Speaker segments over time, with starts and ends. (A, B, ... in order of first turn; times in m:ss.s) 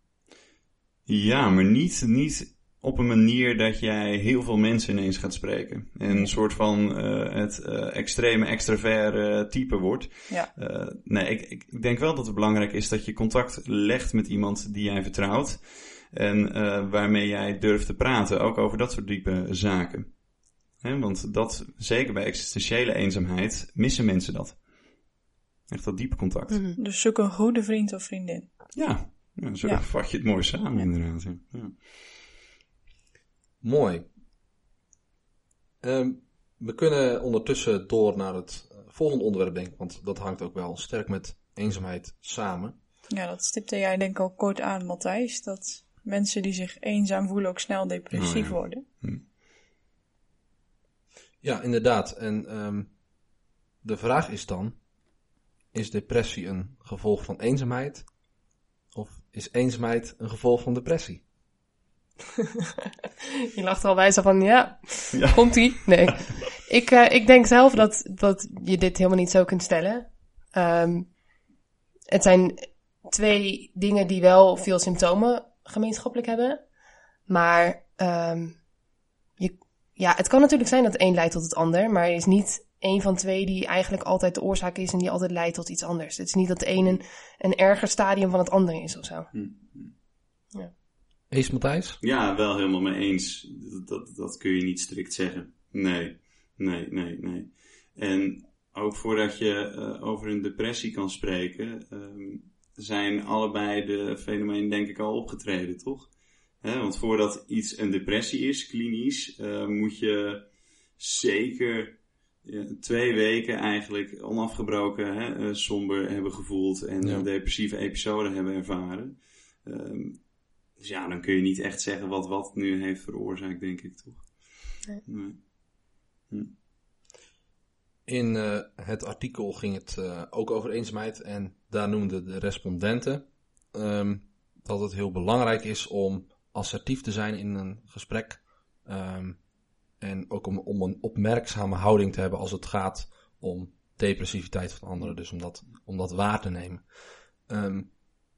0:01.0-0:26.6 A
0:26.5-0:26.8 B
0:26.8-0:29.1 C
0:28.7-0:31.9 A
0:29.6-0:29.9 C
0:33.6-0:34.1 D
0:35.8-0:42.8 D
0:43.1-0:48.8 C
0:48.1-0:49.2 A
0:51.4-0:53.0 D
0:53.8-0:55.1 D
0:55.7-0:58.4 D
0:58.9-1:01.2 D
1:03.5-1:11.2 B
1:05.1-1:06.2 A
1:12.1-1:16.6 B
1:17.3-1:18.6 B
1:19.4-1:29.3 B
1:29.3-1:30.0 A
1:31.3-1:32.0 D
1:32.0-2:06.5 A
1:57.0-1:57.3 D
2:08.0-2:26.9 D
2:27.4-2:28.0 D